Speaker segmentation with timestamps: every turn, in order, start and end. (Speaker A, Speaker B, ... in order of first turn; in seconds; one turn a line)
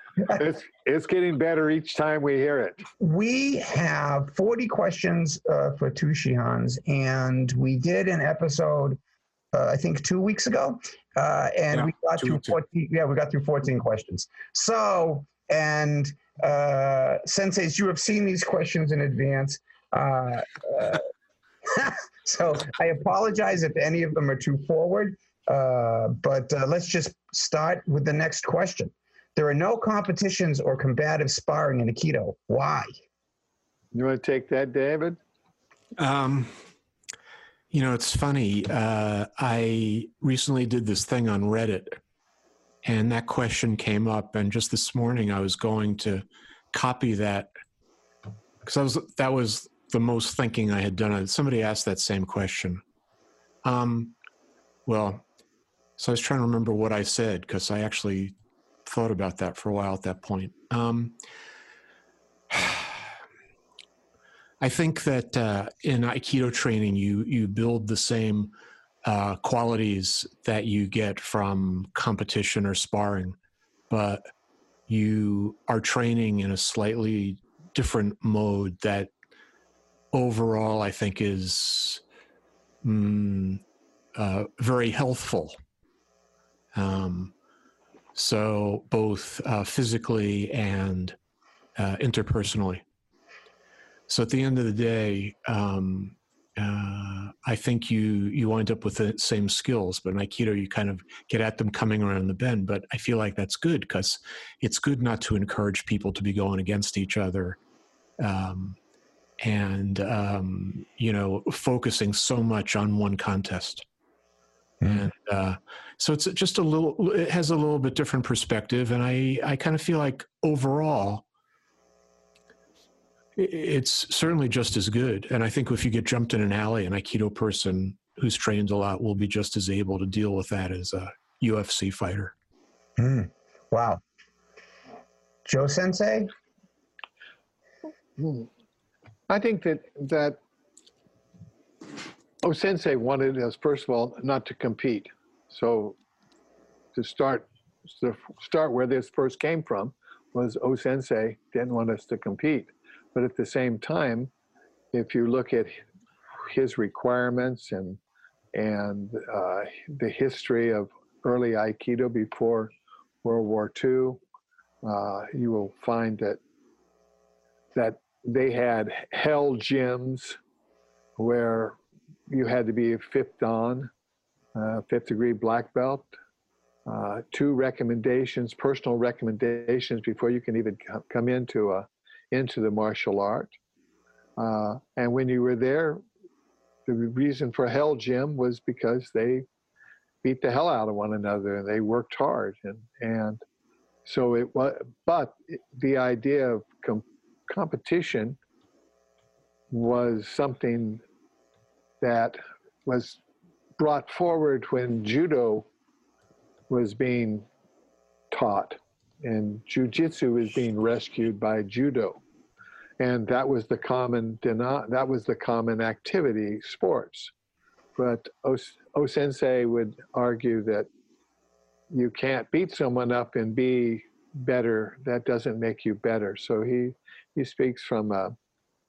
Speaker A: 0.2-2.8
Speaker B: 3.0-9.0
Speaker B: 9.5-21.1
Speaker C: 11.7-12.6
Speaker B: 21.6-32.9
Speaker A: 33.9-35.2
Speaker C: 36.0-36.5
Speaker C: 37.7-42.0
Speaker C: 42.8-47.5
Speaker C: 48.6-52.8
Speaker C: 53.6-54.1
Speaker C: 54.9-55.2
Speaker C: 56.0-58.3
Speaker C: 58.9-61.2
Speaker C: 62.5-63.1
Speaker C: 64.6-68.5
Speaker C: 69.0-73.4
Speaker C: 73.9-74.3
Speaker C: 74.9-79.1
Speaker C: 80.1-82.0
Speaker C: 82.8-83.6
Speaker C: 84.2-85.6
Speaker C: 86.7-87.3
Speaker C: 88.2-91.2
Speaker C: 91.8-92.8
Speaker C: 94.1-107.6
Speaker C: 108.2-108.8
Speaker C: 109.4-113.8
Speaker B: 114.8-115.1
Speaker C: 114.8-121.2
Speaker C: 123.4-132.3
Speaker B: 133.0-134.0
Speaker B: 135.4-136.3
Speaker A: 138.2-138.5
Speaker A: 139.3-140.4
Speaker A: 142.4-146.0
Speaker A: 146.9-154.3
Speaker A: 154.9-155.8
Speaker A: 156.5-158.0
Speaker A: 158.5-162.7
Speaker A: 163.2-164.2
Speaker A: 164.8-166.4
Speaker A: 167.8-170.4
Speaker A: 171.2-171.8
Speaker A: 172.3-173.9
Speaker A: 174.6-176.2
Speaker A: 176.9-183.5
Speaker A: 184.4-186.0
Speaker A: 186.9-189.5
Speaker A: 190.2-193.4
Speaker A: 194.1-198.4
Speaker A: 199.7-201.0
Speaker A: 202.0-203.2
Speaker A: 203.8-205.7
Speaker A: 206.7-207.5
Speaker A: 208.3-212.2
Speaker A: 213.0-217.3
Speaker A: 218.0-220.9
Speaker A: 221.9-228.3